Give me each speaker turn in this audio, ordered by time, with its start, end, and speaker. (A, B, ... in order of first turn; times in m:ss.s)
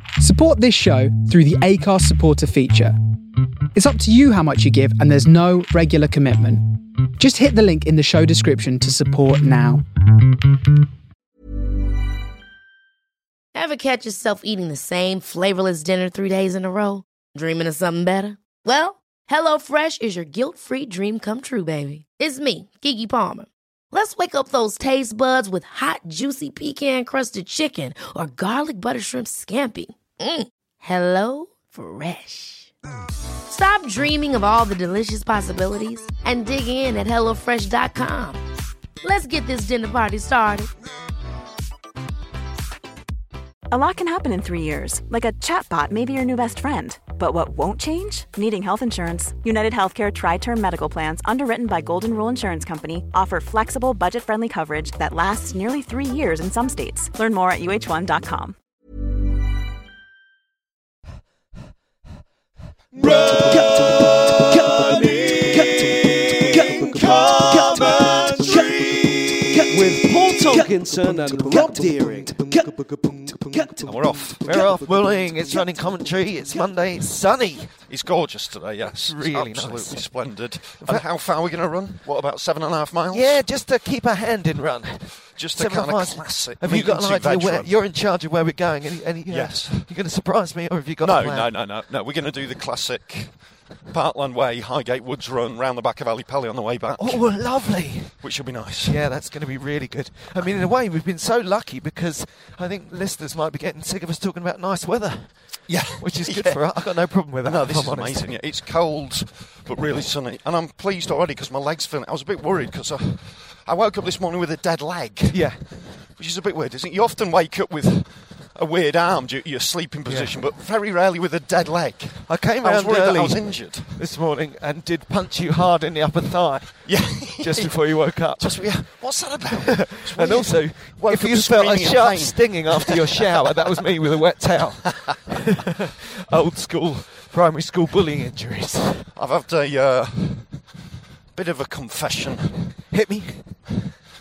0:00.2-0:03.0 A
0:03.7-0:09.8 A
0:13.5-0:32.7 B
0:33.5-0:38.4 B
0:39.0-0:40.7 B
0:43.7-0:58.6 C
1:02.9-1:03.8 D
1:03.0-1:15.7 E
1:04.3-1:05.8 D
1:06.4-1:12.7 D
1:07.0-1:08.7 F
1:13.8-1:14.4 F
1:14.4-1:17.7 D
1:17.9-1:23.4 F
1:19.1-1:21.1 D
1:23.1-1:31.5 D
1:25.4-1:27.8 F
1:29.3-1:29.9 F
1:31.0-1:37.5 F
1:36.9-1:48.3 D
1:38.2-1:39.0 F
1:45.7-2:03.9 F
1:55.3-1:55.7 D
2:00.1-2:00.4 D
2:02.3-2:15.6 D
2:06.8-2:13.0 F
2:16.3-2:19.1 D
2:19.2-2:20.7 F
2:21.3-2:22.7 F
2:22.9-2:23.7 D